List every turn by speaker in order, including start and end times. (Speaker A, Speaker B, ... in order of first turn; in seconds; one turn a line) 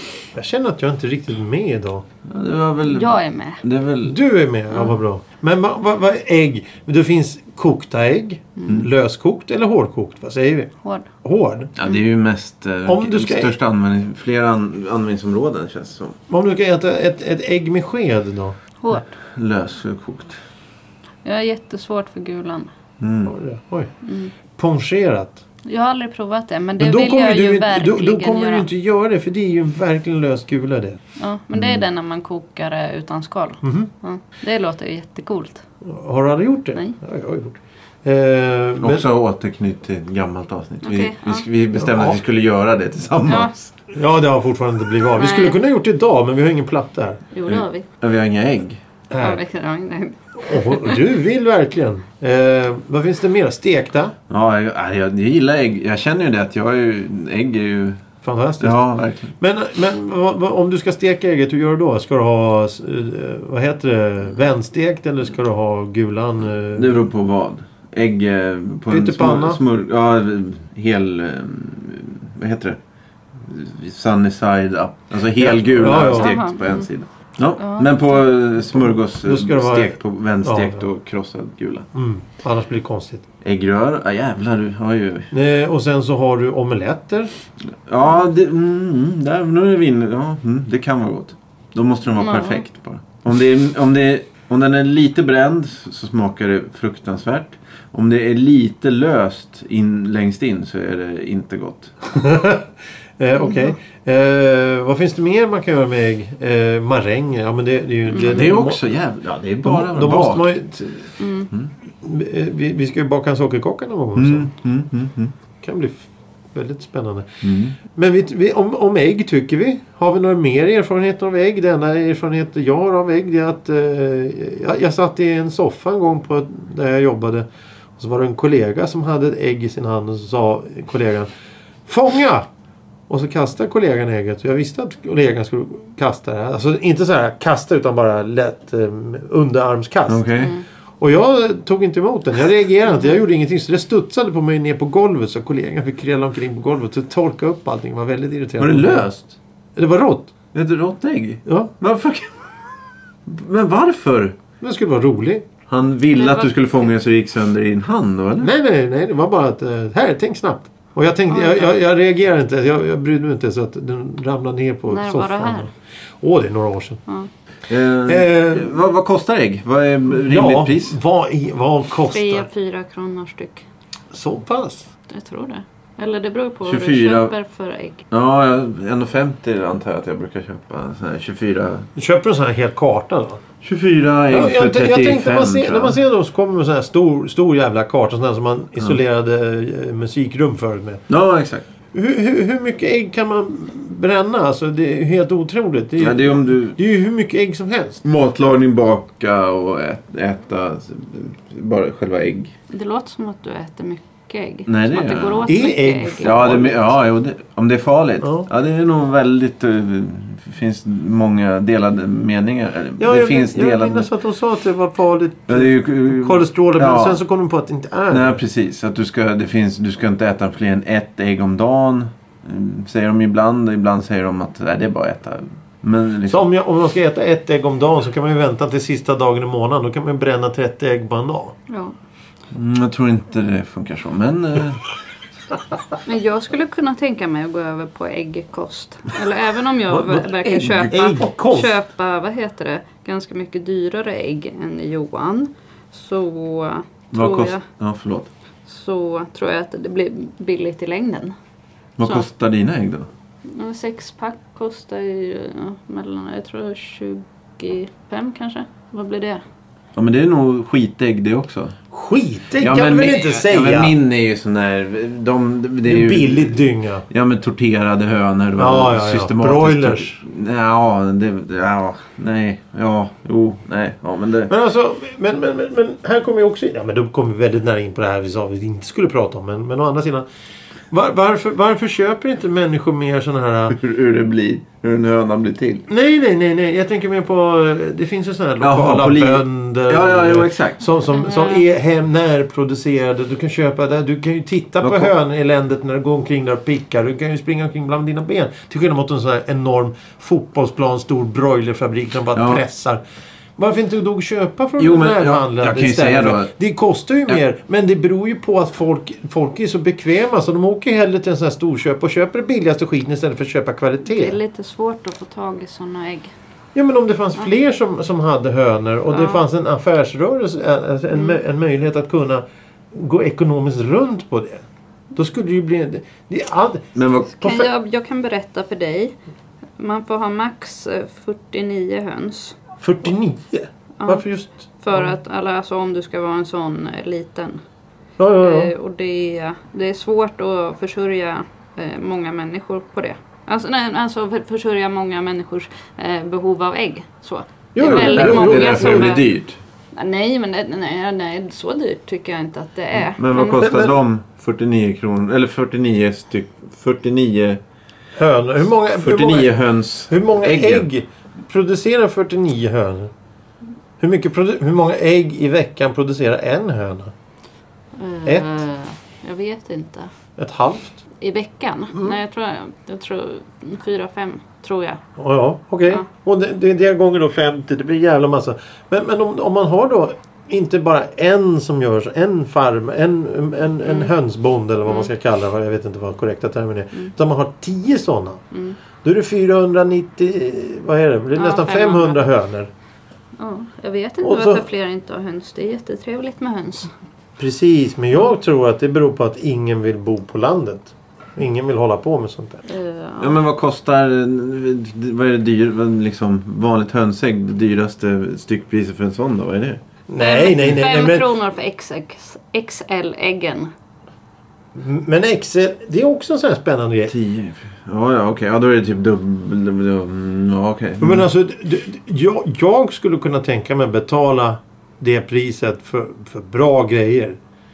Speaker A: 0.3-2.0
Speaker B: 2.2-4.2
Speaker C: 2.9-3.6
Speaker A: 4.0-10.7
Speaker C: 4.7-5.0
Speaker A: 11.2-11.7
Speaker B: 11.8-16.2
Speaker A: 12.8-13.5
Speaker A: 16.3-18.6
Speaker C: 18.8-19.1
Speaker B: 19.2-20.4
Speaker C: 21.2-22.7
Speaker B: 23.0-23.3
Speaker A: 23.3-23.9
Speaker C: 24.0-24.3
Speaker A: 24.5-25.4
Speaker C: 25.6-28.7
Speaker A: 26.8-31.0
Speaker C: 31.2-35.6
Speaker B: 31.5-31.8
Speaker A: 33.6-33.9
Speaker A: 35.8-39.0
Speaker B: 38.8-43.7
Speaker C: 40.8-41.5
Speaker A: 41.8-42.2
Speaker C: 43.3-43.5
Speaker A: 43.9-47.2
Speaker C: 45.2-45.6
Speaker C: 47.3-47.9
Speaker B: 47.5-48.8
Speaker A: 49.1-49.4
Speaker C: 49.2-51.0
Speaker A: 50.4-54.1
Speaker B: 54.3-58.0
Speaker A: 58.2-58.8
Speaker B: 58.6-59.3
Speaker A: 59.4-66.9
Speaker B: 66.7-72.8
Speaker A: 68.9-69.6
Speaker B: 73.3-81.9
Speaker A: 75.4-76.3
Speaker C: 76.1-76.9
Speaker C: 77.6-78.0
Speaker A: 79.2-80.8
Speaker A: 81.9-83.2
Speaker B: 83.4-85.3
Speaker A: 85.3-87.3
Speaker B: 87.9-101.9
Speaker C: 92.2-92.6
Speaker A: 102.1-102.7
Speaker A: 103.2-108.8
Speaker C: 103.4-103.7
Speaker C: 108.1-108.5
Speaker B: 108.2-110.6
Speaker A: 109.6-111.1
Speaker C: 111.2-111.5
Speaker A: 112.0-114.5
Speaker B: 114.2-115.3
Speaker A: 115.6-117.4
Speaker B: 117.4-117.8
Speaker A: 117.9-127.5
Speaker A: 128.0-131.3
Speaker A: 131.9-132.4
Speaker A: 133.1-140.3
Speaker B: 140.1-140.6
Speaker A: 141.0-150.3
Speaker B: 148.6-149.1
Speaker B: 150.5-152.5
Speaker A: 151.4-151.7
Speaker B: 153.2-154.4
Speaker A: 154.6-155.4
Speaker B: 155.7-158.5
Speaker C: 156.1-156.9
Speaker A: 158.4-165.7
Speaker C: 161.3-161.7
Speaker C: 164.9-165.7
Speaker A: 166.2-167.0
Speaker B: 167.7-171.0
Speaker A: 168.1-168.8
Speaker A: 170.2-172.5
Speaker C: 172.1-173.6
Speaker A: 174.1-174.9
Speaker C: 175.1-178.0
Speaker B: 176.6-177.3
Speaker B: 178.1-181.9
Speaker A: 181.9-183.4
Speaker B: 183.6-186.0
Speaker A: 184.3-191.0
Speaker B: 191.1-191.6
Speaker A: 191.9-198.0
Speaker B: 196.0-196.8
Speaker B: 198.0-202.5
Speaker C: 202.7-206.7
Speaker B: 204.7-205.4
Speaker A: 205.5-206.8
Speaker B: 206.2-214.1
Speaker A: 208.2-208.5
Speaker A: 213.0-218.4
Speaker B: 215.5-217.2
Speaker B: 218.1-226.4
Speaker A: 226.3-231.5
Speaker C: 231.7-231.9
Speaker B: 232.5-234.8
Speaker C: 236.0-247.6
Speaker A: 239.9-241.8
Speaker B: 247.1-248.3
Speaker C: 248.7-251.3
Speaker B: 252.0-253.1
Speaker C: 253.5-259.4
Speaker B: 259.9-261.8
Speaker A: 261.9-263.9
Speaker B: 262.6-266.6
Speaker A: 265.8-267.1
Speaker B: 267.1-274.5
Speaker A: 268.6-270.1
Speaker A: 274.5-280.2
Speaker A: 280.9-283.8
Speaker B: 283.7-285.9
Speaker A: 285.9-303.0
Speaker B: 288.6-290.8
Speaker C: 291.1-291.6
Speaker B: 294.8-295.1
Speaker B: 302.3-302.6
Speaker A: 303.6-314.4
Speaker B: 304.8-306.5
Speaker C: 314.1-316.3
Speaker A: 316.7-327.7
Speaker C: 319.1-319.4
Speaker B: 326.9-327.3
Speaker C: 327.3-329.1
Speaker C: 329.8-332.6
Speaker A: 332.8-335.1
Speaker C: 334.8-337.6
Speaker A: 338.2-338.7
Speaker C: 338.4-349.2
Speaker A: 347.7-349.2
Speaker B: 347.8-349.6
Speaker C: 349.9-353.7
Speaker B: 353.0-357.6
Speaker A: 353.6-353.9
Speaker A: 358.1-359.5
Speaker B: 358.9-360.9
Speaker A: 360.1-363.1
Speaker A: 364.0-367.1
Speaker C: 368.0-370.1
Speaker A: 370.4-371.0
Speaker C: 371.2-375.0
Speaker A: 375.2-388.4
Speaker C: 383.8-384.1
Speaker C: 388.5-388.8
Speaker A: 389.0-392.7
Speaker C: 391.3-392.2
Speaker C: 393.4-396.9
Speaker A: 394.2-394.6
Speaker A: 397.4-402.6
Speaker C: 402.7-403.4
Speaker B: 403.2-409.8
Speaker A: 410.1-411.2
Speaker C: 410.2-413.7
Speaker A: 414.7-417.1
Speaker B: 417.1-421.3
Speaker A: 421.0-427.4